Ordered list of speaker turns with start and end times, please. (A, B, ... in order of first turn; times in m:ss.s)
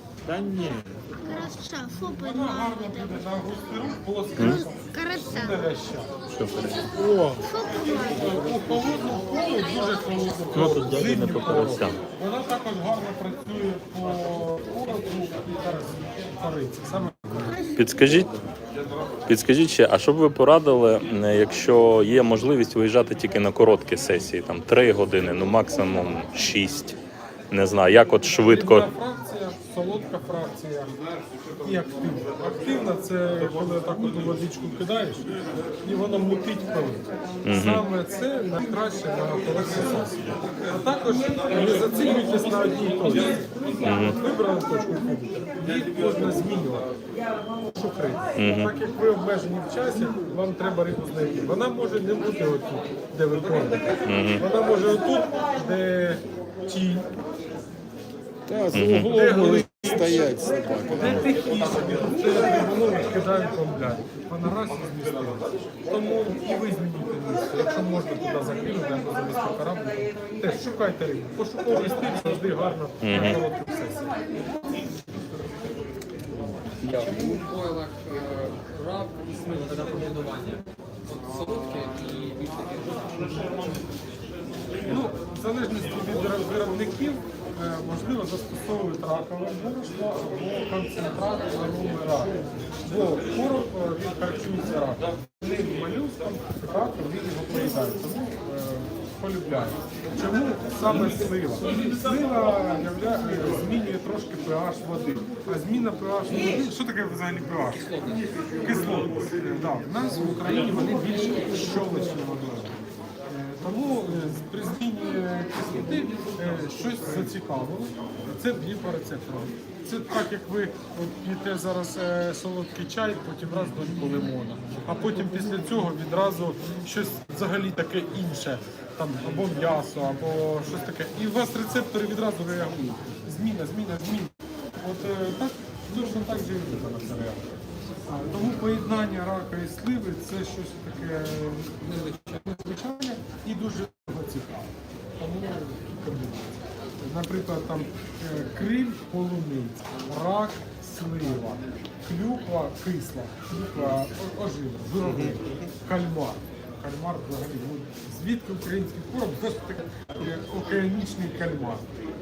0:00.2-0:01.6 A
0:01.2-0:03.6 B
0:02.1-0:06.1 C
0:04.4-0:05.6 B
0:06.3-0:06.9 D
0:07.0-0:17.7 C
0:07.4-0:08.6 B
0:09.3-0:10.2 B
0:10.5-0:12.0 D
0:17.7-0:18.3 D
0:19.3-0:27.0 D
0:27.5-0:28.9 D
0:28.3-0:30.9 C
0:31.6-0:35.3 C
0:35.8-0:46.9 C
0:37.4-0:37.8 D
0:43.8-0:44.2 D
0:47.7-0:57.1 C
0:48.4-0:48.7 D
0:54.0-0:54.4 D
0:58.5-1:01.3 A
0:58.7-0:59.1 D
0:59.0-1:00.3 C
1:00.9-1:14.2 C
1:13.0-1:13.4 D
1:16.9-1:24.0 E
1:24.8-1:47.9 C
1:48.6-2:41.9 C